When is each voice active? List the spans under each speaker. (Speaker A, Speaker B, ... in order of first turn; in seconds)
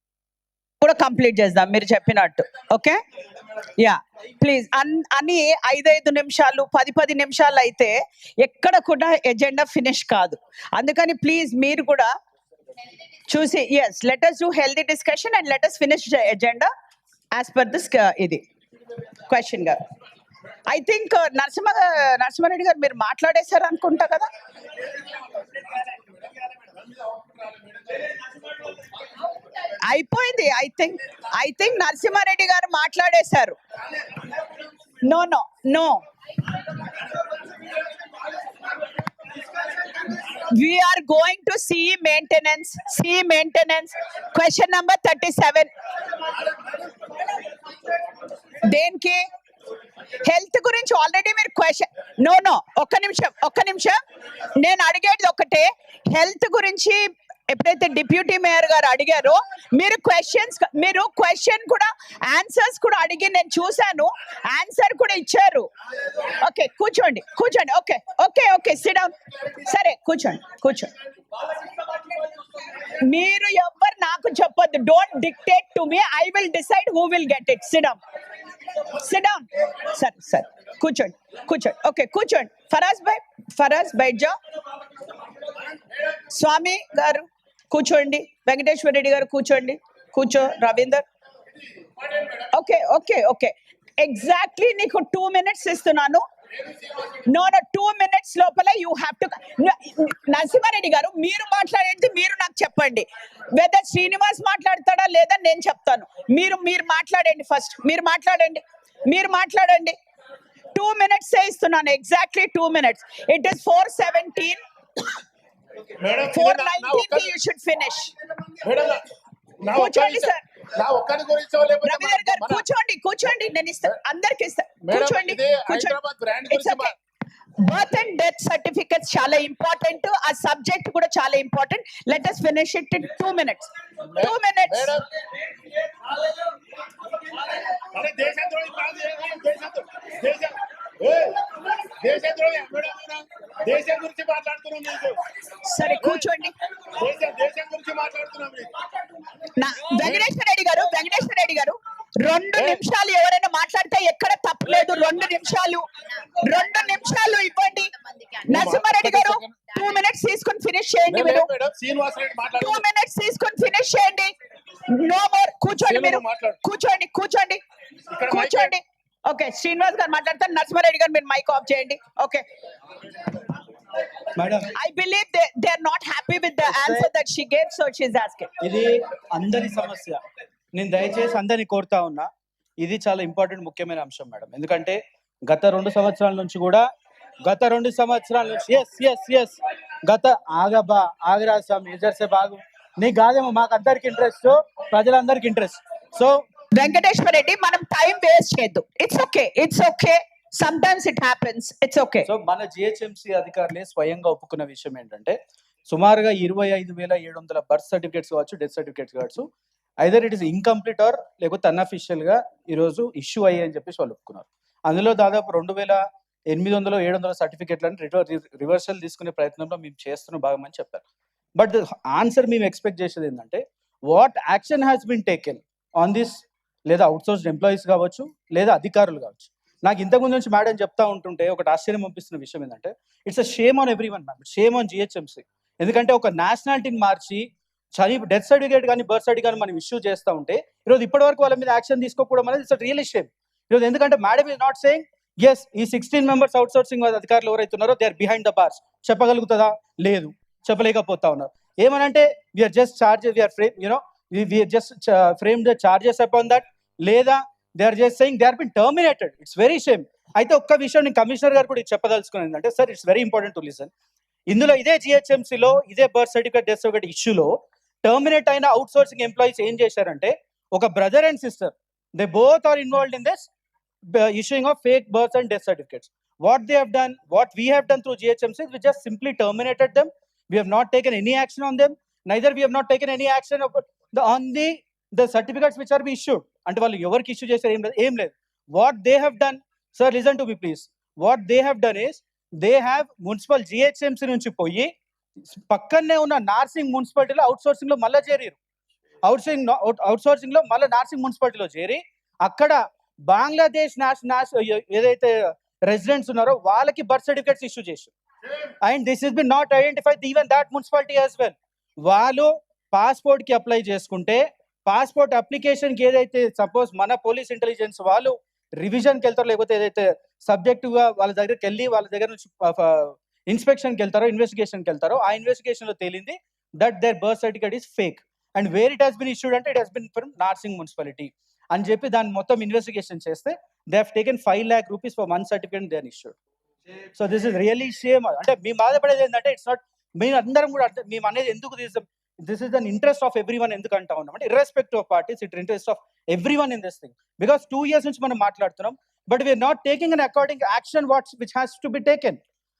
Speaker A: 0.8-3.0, 3.8-12.1, 13.3-16.7, 17.3-18.4, 19.3-19.8, 20.7-24.3, 29.8-33.6, 35.0-36.0, 40.4-45.7, 48.6-49.2, 50.2-54.0, 54.5-65.7, 66.3-70.9, 73.0-78.0, 78.9-84.4, 86.3-91.0, 92.5-96.2, 97.2-110.0, 110.7-114.6, 116.3-118.1, 119.7-120.4, 121.8-126.0, 126.5-126.9, 127.6-134.9, 145.7-146.5, 149.6-155.8, 156.4-161.5, 162.6-164.3, 164.9-167.6, 168.3-172.4, 174.7-178.5, 196.7-202.3
Speaker B: 25.4-28.2, 116.0-117.3, 118.6-119.0, 119.6-122.6, 124.8-126.9, 134.1-135.0, 137.9-145.2, 145.8-146.3, 146.9-148.7, 150.0-150.3, 152.6-152.8, 158.5-159.7, 161.1-162.8, 165.7-166.6, 168.1-168.7
Speaker C: 174.4-174.7, 176.7-177.1, 178.6-180.2, 180.7-182.3, 182.8-186.8, 187.4-196.4, 202.2-209.5, 210.0-221.0, 221.6-263.9, 264.5-273.5, 274.1-294.9, 295.7-298.6, 299.2-308.1, 308.8-336.4, 337.1-352.4